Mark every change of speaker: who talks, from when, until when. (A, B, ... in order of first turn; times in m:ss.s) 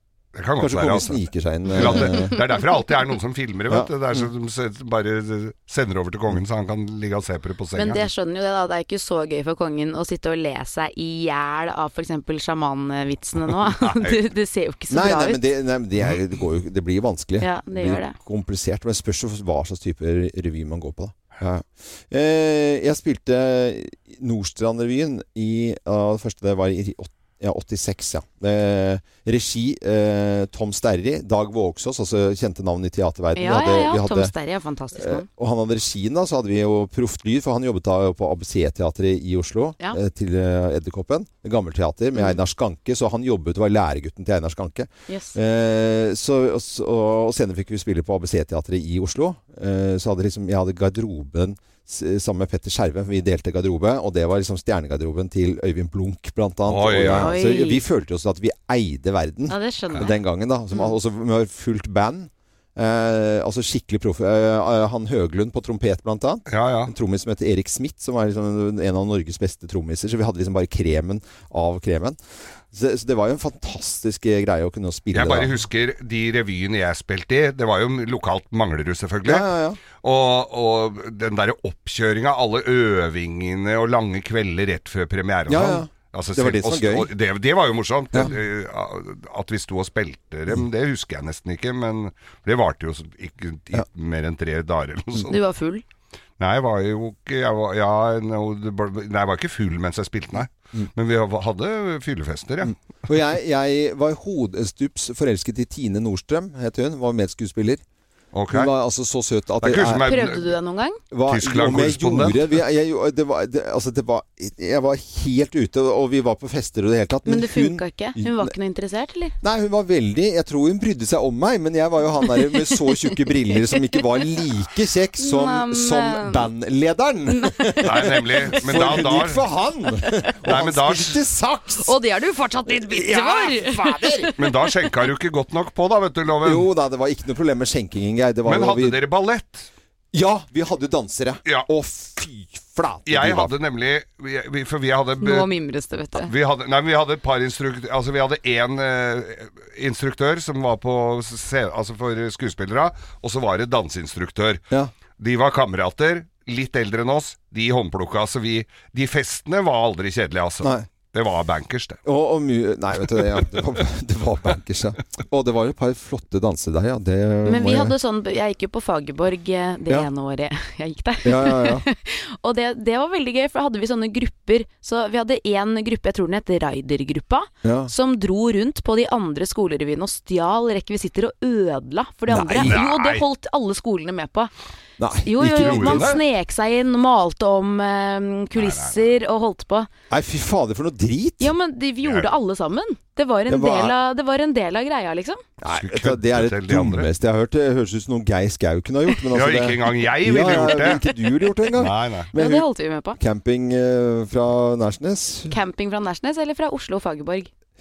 0:00.3-0:08.0 A
0:00.6-0:02.3 B
0:03.7-0:04.3 B
0:07.8-0:15.4 C
0:13.8-0:14.2 A
0:14.9-0:34.3 B
0:17.4-0:18.1 C
0:33.3-0:35.2 C
0:35.0-1:12.2 B
0:45.1-0:45.3 C
0:56.7-0:57.3 A
0:57.2-0:57.8 C
0:59.5-1:00.1 C
1:06.5-1:06.9 A
1:12.7-1:15.5 B
1:15.1-1:35.3 A
1:19.2-1:19.8 B
1:25.5-1:27.1 B
1:35.3-1:35.8 C
1:36.4-1:42.7 A
1:42.6-1:47.8 B
1:48.3-1:48.7 A
1:48.5-1:50.1 B
1:49.6-1:50.5 A
1:50.0-1:51.0 C
1:51.1-1:58.5 B
1:51.3-1:52.4 A
1:57.2-1:59.4 C
1:59.4-2:11.9 B
2:02.4-2:02.9 C
2:05.2-2:06.5 C
2:07.4-2:07.8 C
2:07.8-2:09.4 A
2:10.4-2:11.2 A
2:11.8-2:14.6 C
2:12.7-2:14.3 B
2:14.4-2:16.7 A
2:16.4-2:19.0 B
2:18.4-2:19.7 A
2:20.1-2:23.5 B
2:23.1-2:25.5 A
2:25.2-2:26.3 C
2:26.2-2:34.6 A
2:35.2-2:42.0 A
2:40.6-2:40.9 B
2:42.0-2:47.9 B
2:47.4-3:04.5 C
2:51.2-2:51.8 B
2:57.6-2:57.9 B
3:02.3-3:02.8 B
3:02.6-3:03.2 A
3:05.0-3:06.1 B
3:05.2-3:09.9 C
3:05.5-3:06.2 A
3:08.5-3:09.2 A
3:10.1-3:11.5 B
3:11.4-3:15.4 C
3:12.0-3:12.3 A
3:13.5-3:13.9 B
3:15.6-3:25.5 B
3:15.7-3:17.1 A
3:19.3-3:21.0 A
3:21.8-3:22.3 A
3:22.3-3:23.2 C
3:25.5-3:27.5 C